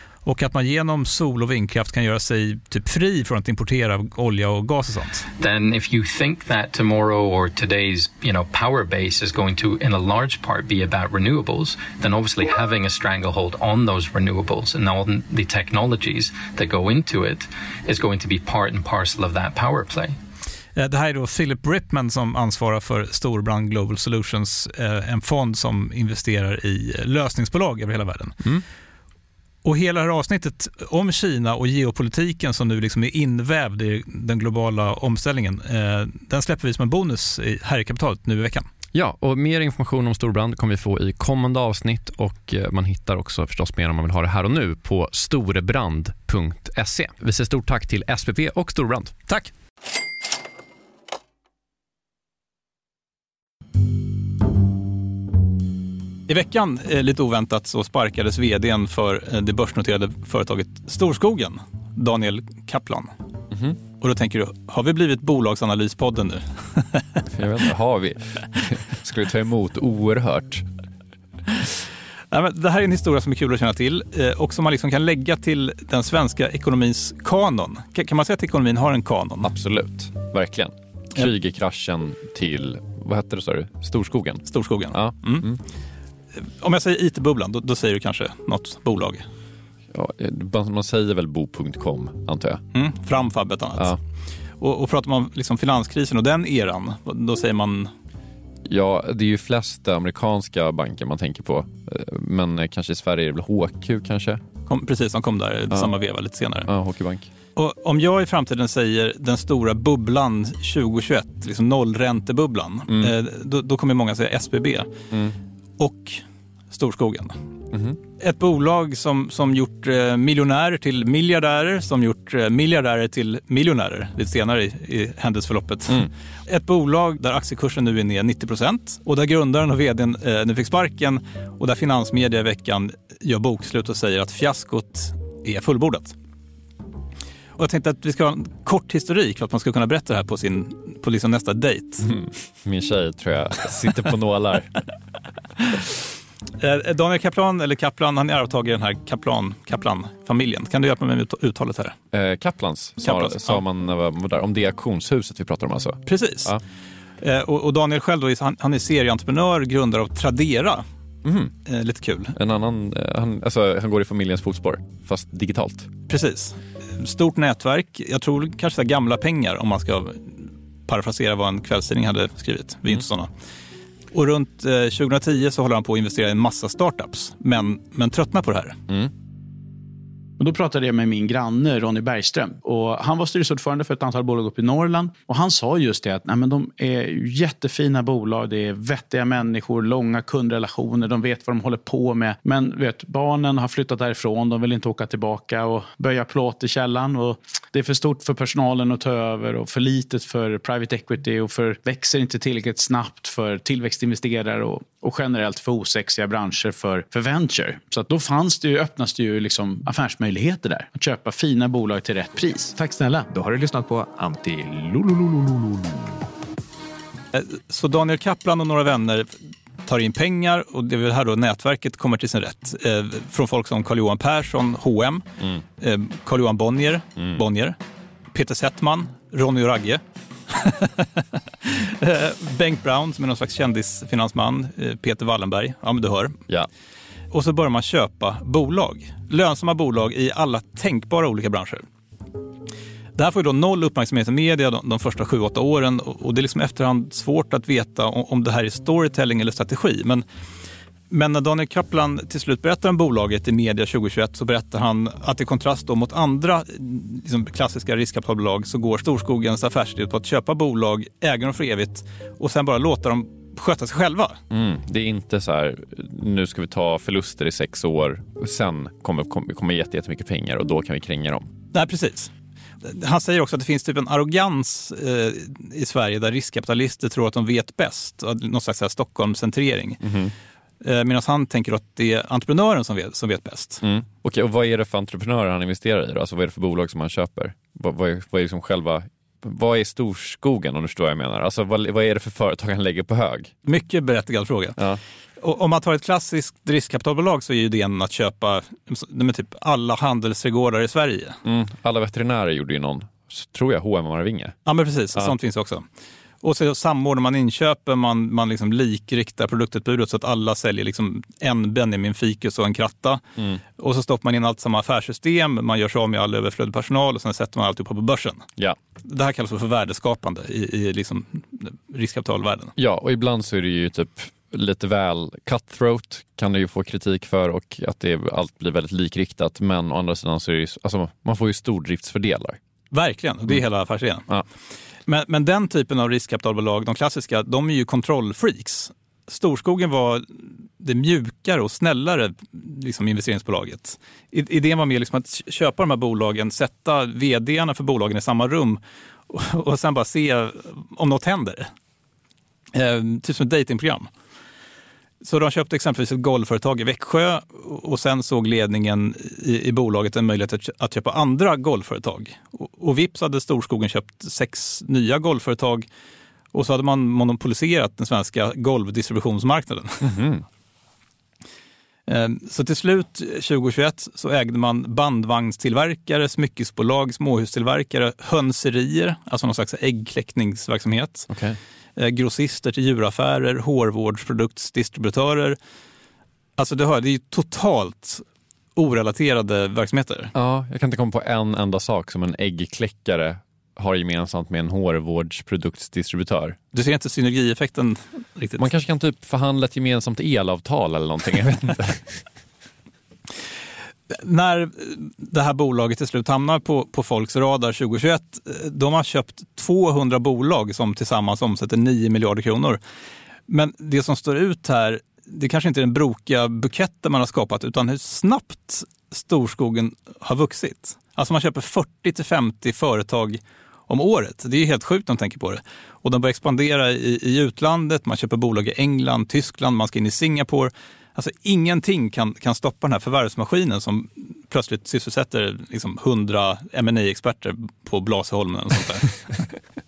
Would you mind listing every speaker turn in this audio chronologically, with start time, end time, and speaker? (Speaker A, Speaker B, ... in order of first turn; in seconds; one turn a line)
Speaker A: 0.2-5.3
Speaker B: 5.4-20.2
Speaker A: 20.8-28.4
Speaker A: 29.6-38.7
Speaker C: 38.9-49.1
Speaker A: 56.3-63.1
Speaker C: 63.5-63.8
Speaker A: 64.0-67.2
Speaker C: 67.2-70.7
Speaker A: 72.3-79.5
Speaker C: 79.4-85.6
Speaker A: 84.5-85.5
Speaker A: 86.3-89.2
Speaker C: 89.9-92.6
Speaker A: 92.7-93.9
Speaker A: 94.6-97.9
Speaker C: 98.6-104.4
Speaker A: 104.7-106.7
Speaker C: 106.7-107.3
Speaker A: 107.5-114.9
Speaker C: 112.9-113.1
Speaker C: 115.1-115.3
Speaker A: 115.8-117.4
Speaker C: 117.7-118.0
Speaker A: 118.2-136.1
Speaker A: 137.6-142.1
Speaker C: 142.0-144.7
Speaker A: 146.6-151.9
Speaker C: 152.1-156.6
Speaker A: 153.0-153.6
Speaker A: 156.1-156.6
Speaker A: 157.2-160.8
Speaker C: 161.2-161.5
Speaker A: 161.7-162.3
Speaker C: 162.3-165.9
Speaker A: 166.1-173.3
Speaker A: 174.1-178.8
Speaker D: 180.4-213.3
Speaker E: 213.3-215.7
Speaker A: 217.3-225.2
Speaker A: 225.8-227.8
Speaker A: 228.3-236.4
Speaker A: 237.3-241.8
Speaker A: 243.2-250.2
Speaker A: 251.1-264.4
Speaker C: 264.5-271.5
Speaker A: 271.7-272.3
Speaker A: 272.8-280.0
Speaker C: 280.0-280.3
Speaker A: 280.8-283.8
Speaker C: 283.8-293.5
Speaker A: 293.6-294.8
Speaker A: 295.4-301.4
Speaker C: 301.4-304.6
Speaker A: 304.6-305.8
Speaker A: 306.4-313.2
Speaker C: 313.4-313.6
Speaker A: 313.8-318.5
Speaker A: 319.0-322.7
Speaker C: 322.8-332.6
Speaker A: 332.9-334.3
Speaker A: 335.1-351.7
Speaker A: 352.7-354.1
Speaker A: 355.2-365.9
Speaker A: 366.5-370.2
Speaker C: 370.0-370.4
Speaker A: 372.1-381.3
Speaker C: 381.3-381.6
Speaker A: 382.0-385.6
Speaker A: 386.6-388.2
Speaker A: 388.8-390.3
Speaker C: 390.3-396.6
Speaker A: 396.7-398.7
Speaker C: 398.6-402.2
Speaker A: 404.1-412.8
Speaker A: 413.5-439.3